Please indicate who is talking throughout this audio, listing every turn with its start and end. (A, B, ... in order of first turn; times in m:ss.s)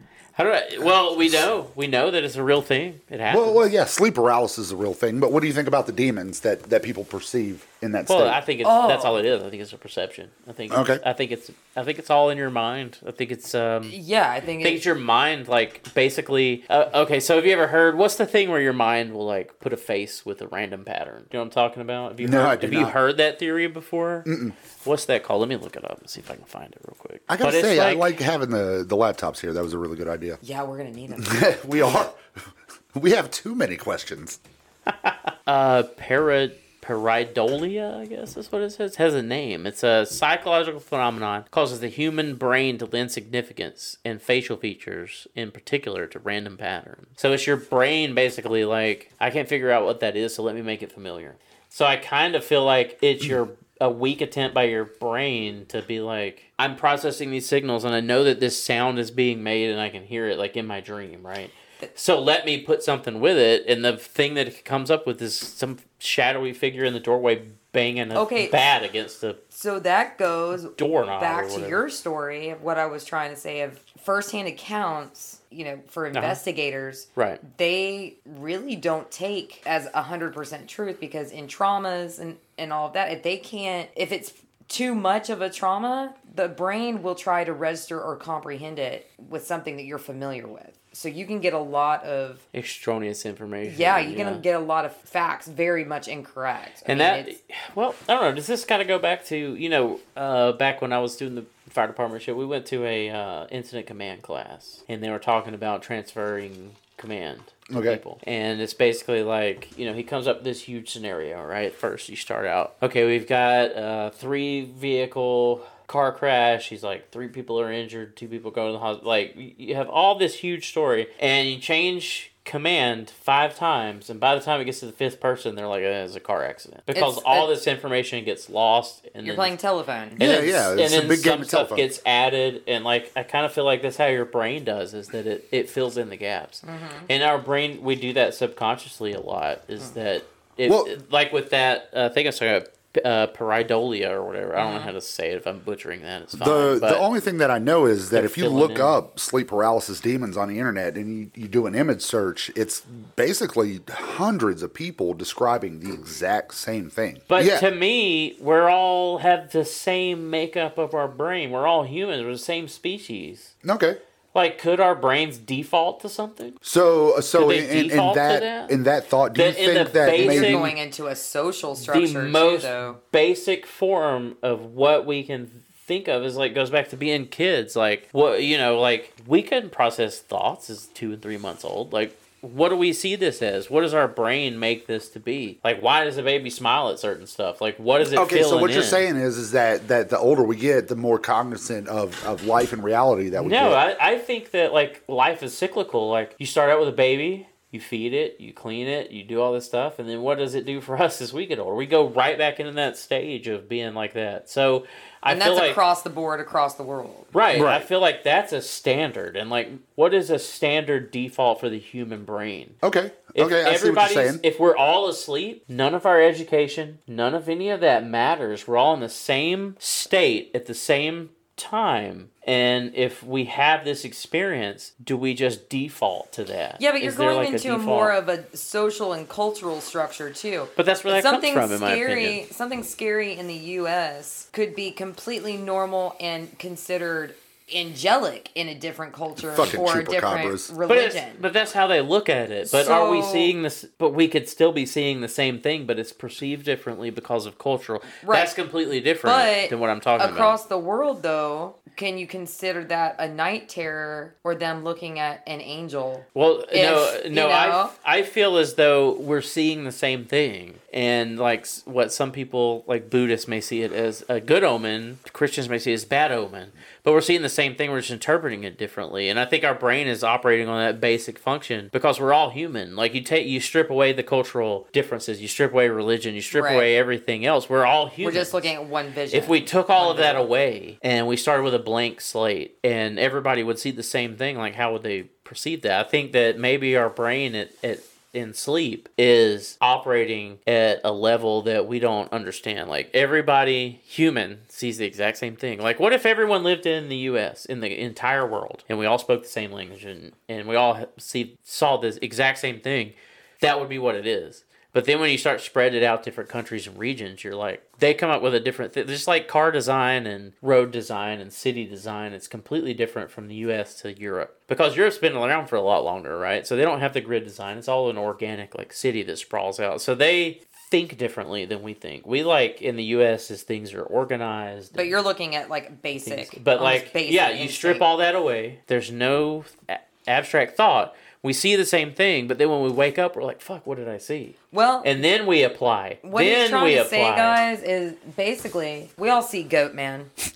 0:00.4-0:03.6 A
0:03.3-0:08.4 B
0:08.1-0:14.0 A
0:08.6-0:09.2 C
0:10.7-0:11.0 B
0:13.9-0:14.8 C
0:14.6-0:24.3 A
0:22.2-0:23.0 B
0:24.3-0:24.6 B
0:24.8-0:28.2 A
0:27.3-0:30.4 B
0:30.4-0:31.5 C
0:31.2-0:32.2 B
0:32.9-0:34.4 B
0:35.5-1:09.4 A
1:08.1-1:08.6 C
1:09.5-1:32.4 C
1:10.8-1:11.8 A
1:16.1-1:16.4 A
1:17.2-1:17.4 A
1:32.5-1:34.4 A
1:33.6-1:37.4 C
1:36.9-2:09.5 A
1:47.7-1:48.0 B
2:06.9-2:07.5 C
2:09.2-2:10.2 C
2:10.2-2:27.0 A
2:10.2-2:11.9 B
2:16.6-2:17.1 C
2:20.7-2:20.9 B
2:24.6-2:24.9 C
2:26.3-2:37.7 B
2:28.1-2:29.0 A
2:37.3-2:43.5 A
2:43.6-2:44.0 B
2:44.3-2:46.6 A
2:46.6-2:50.7 B
2:47.4-2:48.7 A
2:49.3-2:50.8 A
2:50.1-2:53.0 C
2:51.8-3:09.1 A
3:08.0-3:13.8 B
3:13.4-3:25.8 A
3:25.3-3:27.3 C
3:27.3-3:32.8 A
3:27.5-3:27.9 B
3:32.8-3:34.4 B
3:33.4-3:48.1 A
3:46.8-4:01.4 C
3:50.8-3:52.4 A
3:59.5-4:00.7 B
4:00.9-4:10.6 A
4:02.7-4:03.6 C
4:08.2-4:08.5 C
4:09.2-4:17.9 C
4:16.4-4:38.7 A
4:36.5-4:36.9 C
4:38.2-4:40.4 C
4:39.3-5:25.2 A
5:25.0-5:28.1 C
5:26.2-5:37.6 A
5:34.7-5:35.1 C
5:36.2-5:40.3 C